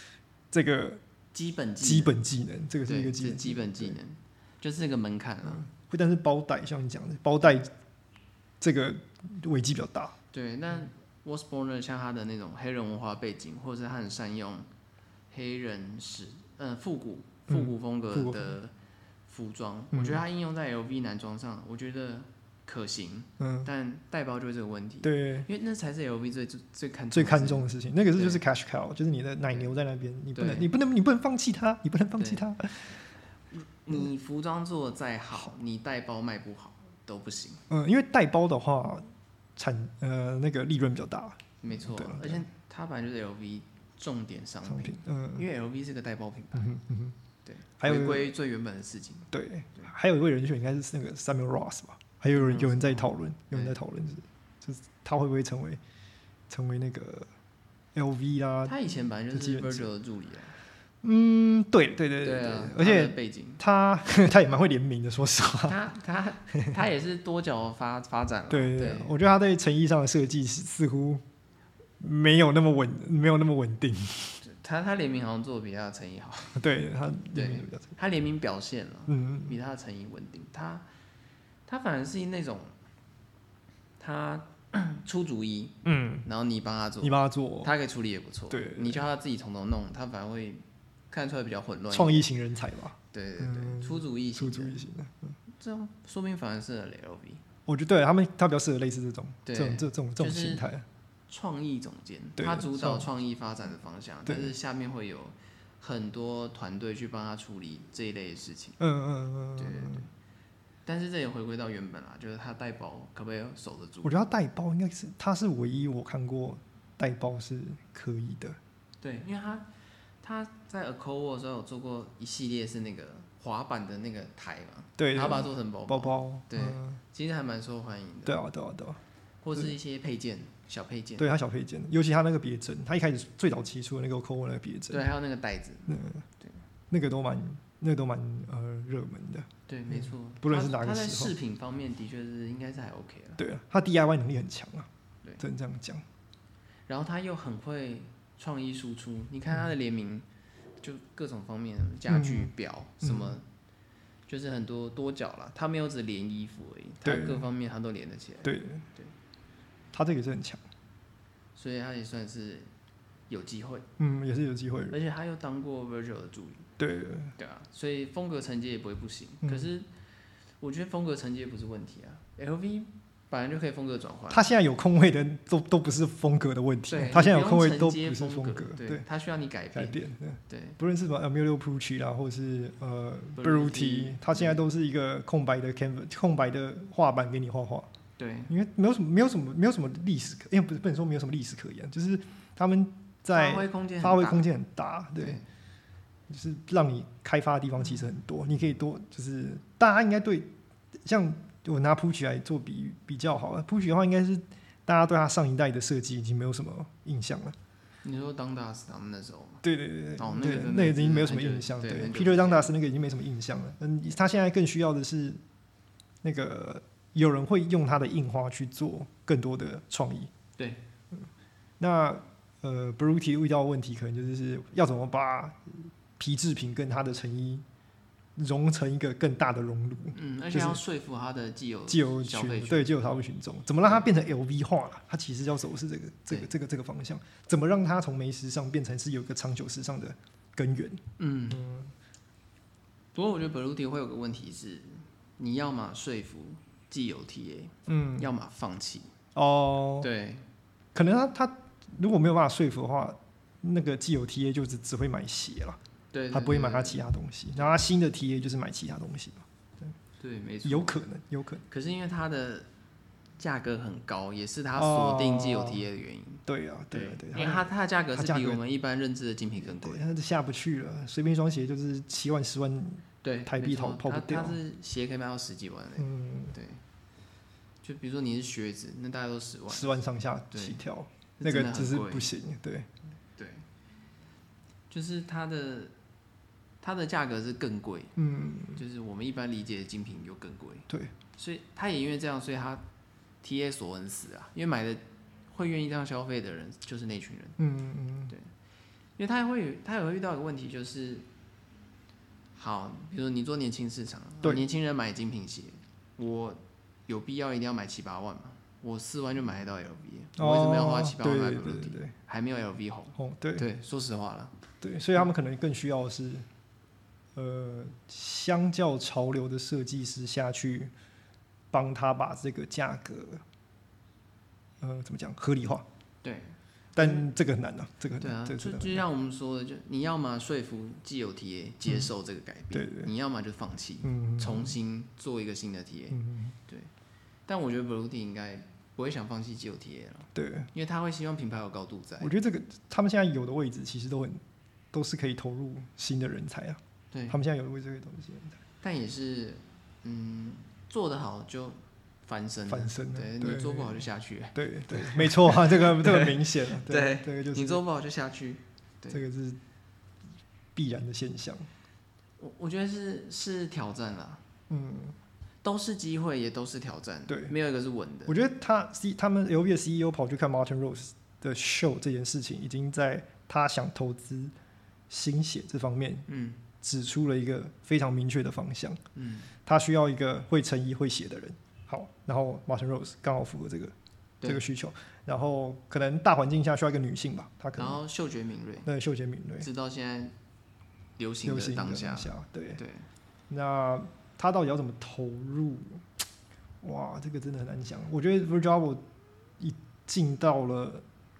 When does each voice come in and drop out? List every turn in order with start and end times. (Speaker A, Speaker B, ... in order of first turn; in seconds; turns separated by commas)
Speaker A: 0.5-1.0, Speaker B: 1.3-2.1, Speaker A: 1.8-4.0, Speaker B: 2.8-5.7, Speaker A: 5.5-7.7, Speaker A: 8.6-10.1, Speaker B: 10.3-14.7, Speaker B: 15.3-18.7, Speaker A: 17.5-18.5, Speaker B: 19.3-28.4, Speaker A: 19.9-20.2, Speaker A: 23.4-23.7, Speaker A: 25.0-25.5, Speaker A: 27.1-33.0, Speaker B: 30.3-30.7, Speaker B: 33.5-37.6, Speaker A: 37.7-42.4, Speaker B: 41.6-46.8, Speaker A: 44.6-45.5, Speaker A: 46.5-47.1, Speaker B: 47.4-49.9, Speaker A: 47.8-48.3, Speaker A: 49.3-55.8, Speaker B: 52.3-53.8, Speaker A: 56.5-57.3, Speaker A: 57.9-58.7, Speaker B: 58.6-60.5, Speaker A: 59.3-59.9, Speaker A: 61.0-65.8, Speaker B: 62.2-63.6, Speaker B: 65.6-69.1, Speaker A: 68.5-71.2, Speaker A: 72.0-74.4, Speaker B: 74.4-76.6, Speaker A: 76.6-77.9, Speaker B: 77.3-80.9, Speaker A: 79.1-79.5, Speaker B: 81.7-82.7, Speaker B: 84.0-92.3, Speaker A: 85.8-86.2, Speaker A: 87.0-87.7, Speaker A: 88.5-89.0, Speaker A: 91.9-95.3, Speaker B: 93.1-94.8, Speaker B: 95.5-97.4, Speaker A: 97.7-100.8, Speaker B: 99.4-100.7, Speaker B: 101.3-108.8, Speaker A: 102.4-103.1, Speaker A: 104.2-104.5, Speaker A: 108.8-110.0, Speaker B: 109.6-110.1, Speaker B: 110.8-114.2, Speaker A: 114.0-118.6, Speaker B: 119.0-119.7, Speaker B: 120.2-128.4, Speaker A: 125.0-127.0, Speaker A: 128.2-129.0, Speaker B: 129.4-131.3, Speaker A: 131.2-135.1, Speaker B: 134.9-136.6, Speaker A: 135.9-136.2, Speaker A: 136.9-141.3, Speaker B: 139.7-143.4, Speaker A: 143.4-144.9, Speaker A: 145.4-146.0, Speaker B: 146.9-150.2, Speaker B: 150.8-153.4, Speaker A: 152.1-153.4, Speaker B: 154.3-159.1, Speaker A: 157.0-157.4, Speaker A: 158.4-158.8, Speaker A: 159.9-160.6, Speaker B: 161.5-162.7, Speaker B: 163.3-163.8, Speaker A: 164.0-165.0, Speaker B: 164.9-166.7, Speaker A: 166.8-167.3, Speaker B: 167.4-169.9, Speaker A: 169.4-169.7, Speaker B: 170.6-174.5, Speaker A: 174.3-179.0, Speaker B: 176.9-180.8, Speaker A: 179.7-187.9, Speaker B: 183.4-184.6, Speaker B: 188.2-188.5, Speaker A: 188.5-195.4, Speaker B: 193.3-194.4, Speaker B: 195.2-195.4, Speaker A: 196.3-200.5, Speaker A: 201.0-207.6, Speaker B: 208.0-209.6, Speaker A: 209.6-215.4, Speaker B: 210.2-212.7, Speaker A: 216.2-220.3, Speaker B: 220.6-220.8, Speaker A: 221.8-227.6, Speaker A: 228.3-230.8, Speaker B: 230.1-232.9, Speaker A: 231.9-241.9, Speaker B: 241.2-241.7, Speaker B: 243.1-249.1, Speaker A: 247.9-248.3, Speaker A: 249.3-250.1, Speaker B: 250.0-250.4, Speaker A: 250.9-255.8, Speaker B: 256.1-257.0, Speaker A: 256.3-259.9, Speaker B: 260.2-261.0, Speaker A: 260.6-261.6, Speaker B: 261.7-262.7, Speaker B: 263.4-270.0, Speaker A: 264.8-265.8, Speaker A: 266.4-268.6, Speaker A: 269.6-274.6, Speaker B: 273.2-276.8, Speaker A: 276.0-276.6, Speaker B: 277.8-280.0, Speaker A: 279.7-282.9, Speaker B: 280.5-280.8, Speaker B: 281.4-282.3, Speaker B: 283.4-283.6, Speaker B: 284.9-285.9, Speaker B: 286.8-288.1, Speaker A: 288.1-288.8, Speaker B: 288.8-292.8, Speaker B: 293.4-297.6, Speaker A: 297.6-298.3, Speaker B: 299.2-301.2, Speaker B: 302.5-314.6, Speaker A: 310.4-312.1, Speaker A: 313.2-313.7, Speaker A: 314.8-316.4, Speaker A: 317.4-320.9, Speaker A: 321.7-323.4, Speaker A: 324.8-325.9, Speaker B: 326.2-327.3, Speaker A: 326.9-329.0, Speaker B: 328.2-336.9, Speaker A: 332.7-333.1, Speaker A: 334.0-334.7, Speaker A: 336.1-336.5, Speaker B: 337.5-342.3, Speaker A: 340.3-340.7, Speaker A: 342.2-348.6, Speaker B: 347.1-347.4, Speaker B: 348.8-359.2, Speaker A: 352.7-357.8, Speaker A: 359.1-359.6, Speaker A: 360.7-361.7, Speaker B: 362.4-364.4, Speaker A: 364.7-365.1, Speaker B: 365.6-368.4, Speaker A: 367.3-367.5, Speaker A: 368.3-374.5, Speaker A: 375.1-376.2, Speaker B: 376.3-376.6, Speaker A: 376.8-379.0, Speaker B: 379.1-379.5, Speaker A: 379.6-388.0, Speaker B: 387.8-388.9, Speaker A: 388.8-389.7, Speaker B: 389.6-390.3, Speaker B: 391.2-393.1, Speaker A: 391.4-392.8, Speaker A: 393.5-396.0, Speaker A: 396.8-399.0, Speaker A: 399.6-401.0